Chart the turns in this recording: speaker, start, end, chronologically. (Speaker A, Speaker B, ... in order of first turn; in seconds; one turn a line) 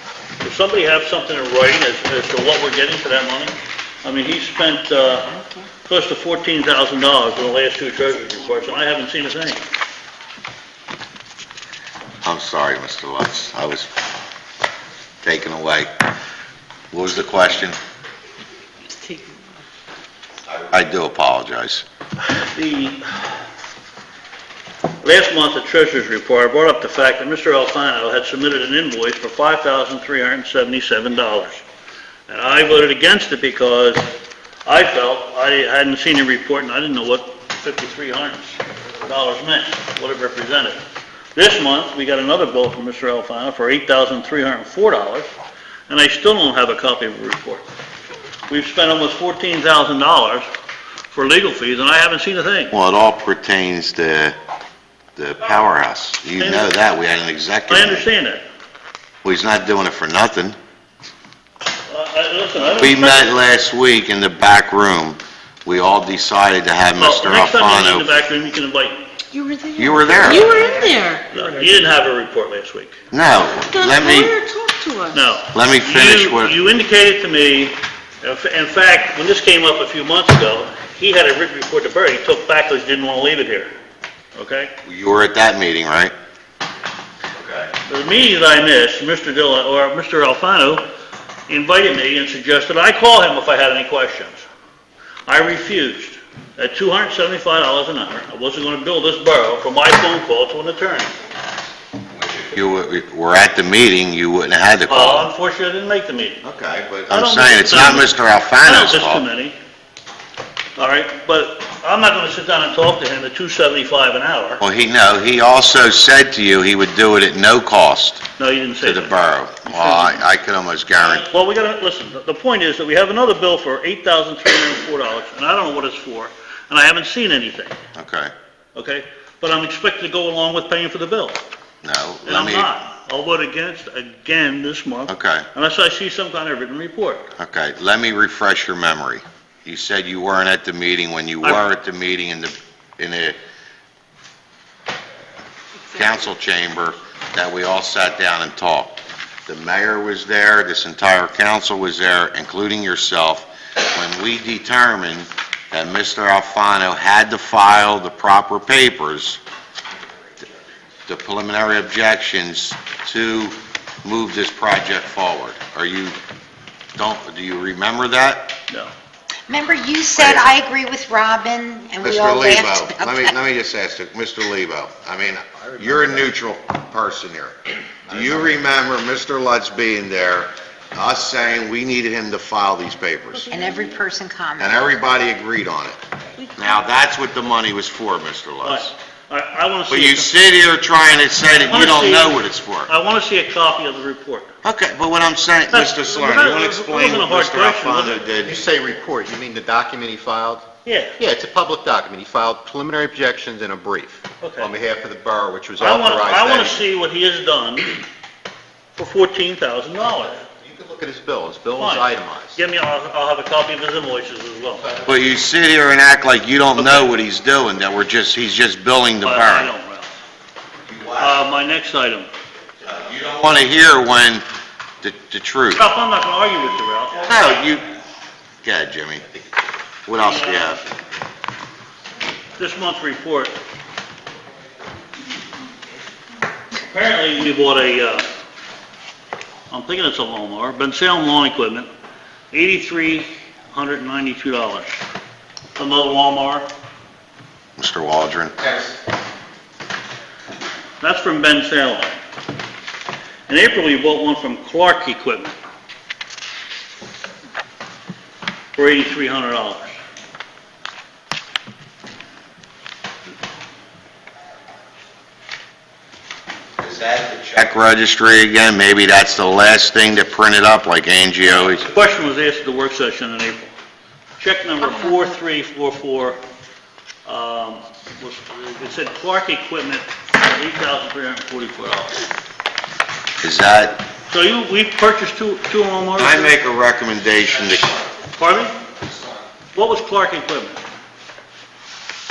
Speaker A: 0.4-9.6
Speaker B: 12.2-13.9
Speaker B: 15.2-15.9
Speaker B: 16.9-17.8
Speaker B: 20.5-21.8
Speaker A: 22.5-23.3
Speaker A: 25.0-31.6
Speaker A: 32.3-34.1
Speaker A: 34.6-40.8
Speaker A: 41.3-45.3
Speaker A: 45.9-47.6
Speaker A: 48.5-50.5
Speaker A: 51.1-52.7
Speaker B: 52.7-54.4
Speaker B: 55.1-58.0
Speaker A: 56.4-56.7
Speaker A: 57.7-58.4
Speaker B: 59.2-60.5
Speaker A: 61.9-63.4
Speaker B: 62.8-68.1
Speaker A: 67.0-69.1
Speaker C: 69.3-71.3
Speaker B: 69.8-70.5
Speaker A: 70.1-72.9
Speaker B: 73.1-74.4
Speaker C: 73.7-75.2
Speaker A: 75.1-83.7
Speaker B: 75.5-76.5
Speaker A: 84.3-84.7
Speaker B: 84.8-86.1
Speaker A: 87.8-90.8
Speaker A: 91.5-94.5
Speaker A: 95.3-101.1
Speaker B: 102.1-105.3
Speaker A: 104.9-106.4
Speaker B: 106.4-109.3
Speaker A: 107.1-108.1
Speaker A: 108.6-109.5
Speaker A: 110.8-114.6
Speaker B: 114.6-118.2
Speaker A: 118.4-119.1
Speaker B: 118.8-121.3
Speaker A: 119.6-120.2
Speaker A: 121.0-127.8
Speaker B: 128.0-128.3
Speaker A: 128.7-131.4
Speaker B: 131.8-132.7
Speaker A: 132.2-137.3
Speaker B: 135.1-135.5
Speaker B: 137.4-143.3
Speaker B: 145.9-159.4
Speaker B: 161.1-166.2
Speaker B: 166.9-168.5
Speaker D: 169.5-173.3
Speaker B: 170.1-170.6
Speaker B: 172.0-183.5
Speaker E: 175.6-176.3
Speaker E: 178.1-178.7
Speaker A: 183.3-184.0
Speaker D: 183.5-184.8
Speaker B: 184.6-186.0
Speaker C: 186.4-186.9
Speaker B: 186.6-188.9
Speaker A: 188.6-190.3
Speaker B: 189.9-192.9
Speaker A: 191.4-194.5
Speaker B: 194.6-198.6
Speaker A: 195.7-198.2
Speaker E: 198.4-200.7
Speaker A: 200.8-201.2
Speaker E: 201.2-206.8
Speaker A: 204.4-204.7
Speaker A: 205.8-208.0
Speaker A: 208.9-210.4
Speaker E: 210.4-212.6
Speaker A: 211.8-214.9
Speaker E: 214.8-215.3
Speaker B: 215.0-219.7
Speaker A: 216.8-217.1
Speaker A: 219.2-220.1
Speaker B: 220.9-221.4
Speaker A: 221.2-222.3
Speaker B: 222.8-224.4
Speaker B: 225.0-225.9
Speaker A: 225.7-227.3
Speaker B: 227.2-227.9
Speaker B: 228.6-229.3
Speaker B: 230.1-230.9
Speaker A: 230.2-230.8
Speaker A: 232.6-233.6
Speaker A: 236.8-238.3
Speaker A: 239.7-241.9
Speaker A: 242.5-245.0
Speaker A: 245.8-246.7
Speaker B: 247.8-248.9
Speaker A: 251.0-252.2
Speaker A: 253.5-255.6
Speaker A: 258.7-260.0
Speaker B: 266.8-271.8
Speaker A: 271.8-273.7
Speaker A: 274.4-276.4
Speaker A: 277.2-282.2
Speaker B: 283.4-284.0
Speaker A: 284.3-286.5
Speaker B: 286.2-288.1
Speaker A: 288.4-288.8
Speaker A: 289.7-290.8